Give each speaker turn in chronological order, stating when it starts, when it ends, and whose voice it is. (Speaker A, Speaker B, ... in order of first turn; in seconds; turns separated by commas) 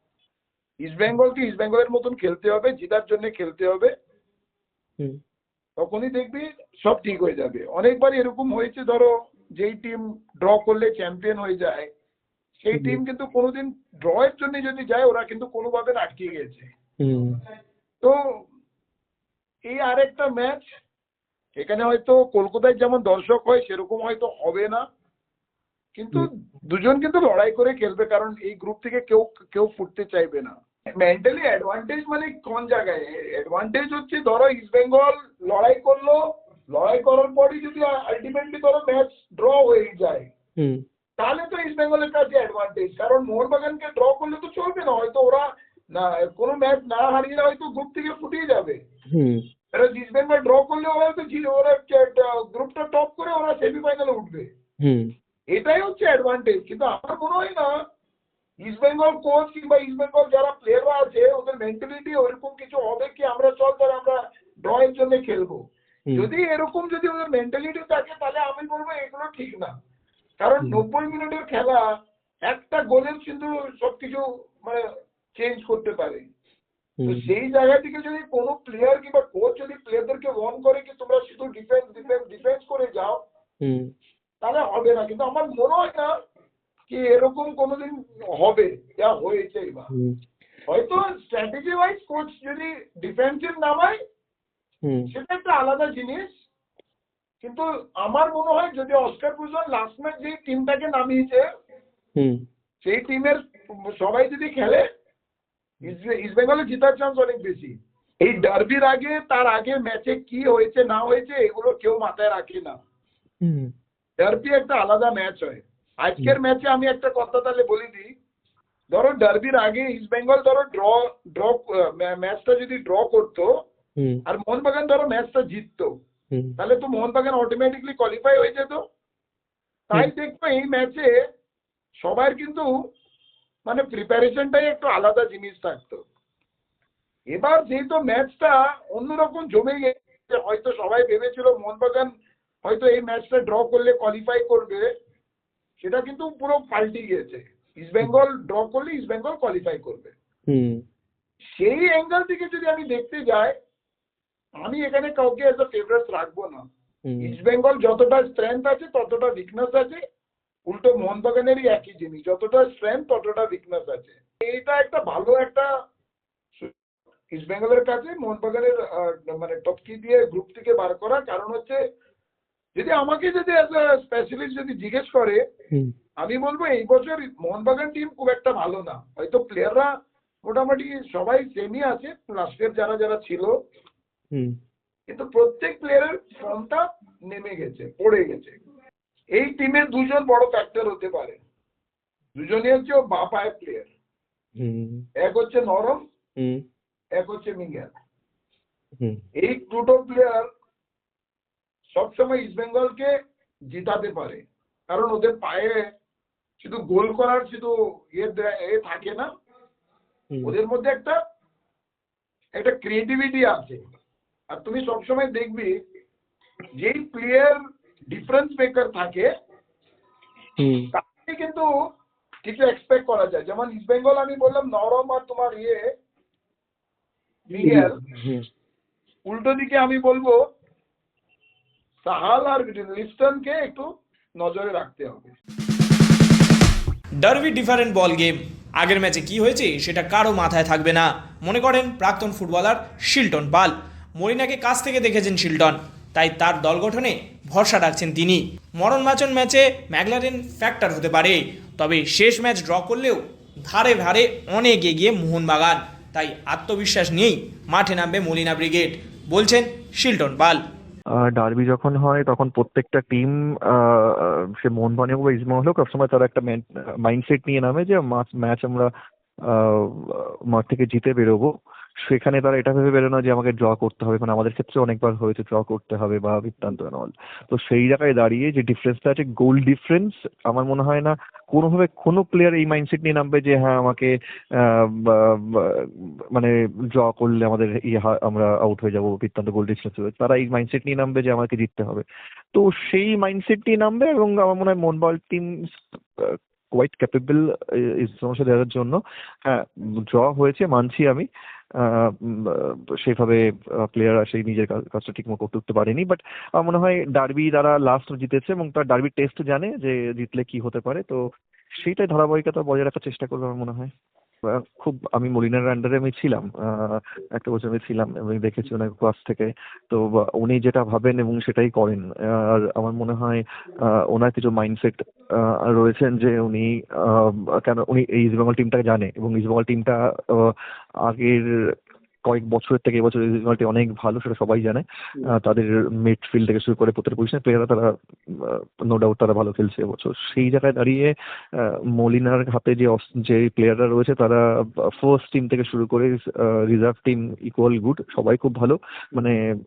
Speaker A: 0.8-3.9, Speaker A: 5.8-11.9, Speaker A: 12.6-16.7, Speaker B: 12.7-13.0, Speaker B: 17.0-17.4, Speaker A: 18.0-18.4, Speaker A: 19.7-20.6, Speaker A: 21.6-24.8, Speaker A: 25.9-40.3, Speaker B: 40.6-40.8, Speaker A: 41.2-48.8, Speaker B: 49.1-49.4, Speaker A: 49.7-54.5, Speaker B: 54.8-55.1, Speaker A: 55.5-57.7, Speaker A: 58.6-65.6, Speaker A: 66.2-69.7, Speaker A: 70.4-71.9, Speaker A: 72.5-74.8, Speaker A: 75.3-76.3, Speaker B: 77.0-77.3, Speaker A: 77.1-83.2, Speaker B: 83.6-83.9, Speaker A: 84.4-86.1, Speaker A: 86.9-89.9, Speaker B: 89.9-90.2, Speaker A: 90.7-94.0, Speaker B: 94.8-95.1, Speaker A: 95.1-96.3, Speaker A: 97.4-101.4, Speaker B: 102.2-102.4, Speaker A: 102.8-104.8, Speaker A: 105.8-112.7, Speaker B: 113.4-113.7, Speaker A: 114.2-118.1, Speaker A: 118.9-123.5, Speaker B: 124.0-124.2, Speaker A: 124.3-125.9, Speaker A: 126.6-128.8, Speaker A: 129.9-131.2, Speaker A: 132.0-132.7, Speaker A: 133.7-136.0, Speaker A: 137.3-142.1, Speaker A: 142.6-144.9, Speaker A: 145.8-150.1, Speaker B: 150.5-150.8, Speaker A: 151.5-153.5, Speaker A: 154.6-156.6, Speaker B: 157.1-157.4, Speaker A: 157.2-160.0, Speaker A: 160.7-165.7, Speaker A: 167.3-171.8, Speaker A: 172.8-175.4, Speaker A: 176.2-183.6, Speaker A: 185.1-188.6, Speaker A: 189.3-191.4, Speaker A: 192.4-193.9, Speaker B: 194.6-195.1, Speaker A: 195.2-196.0, Speaker B: 196.4-196.6, Speaker A: 197.2-197.9, Speaker A: 199.4-200.5, Speaker A: 201.9-203.1, Speaker A: 203.7-205.9, Speaker A: 206.6-209.3, Speaker A: 210.4-211.2, Speaker A: 212.6-213.8, Speaker A: 214.5-215.7, Speaker A: 216.8-217.6, Speaker A: 218.1-219.3, Speaker B: 220.6-220.9, Speaker A: 220.9-221.7, Speaker A: 222.4-225.9, Speaker A: 227.5-228.0, Speaker B: 227.5-228.4, Speaker A: 229.3-230.4, Speaker A: 232.0-235.3, Speaker C: 237.2-260.6, Speaker D: 261.1-268.9, Speaker D: 269.4-271.5, Speaker D: 272.0-311.2, Speaker D: 311.8-313.9, Speaker D: 314.4-331.7, Speaker D: 332.2-349.4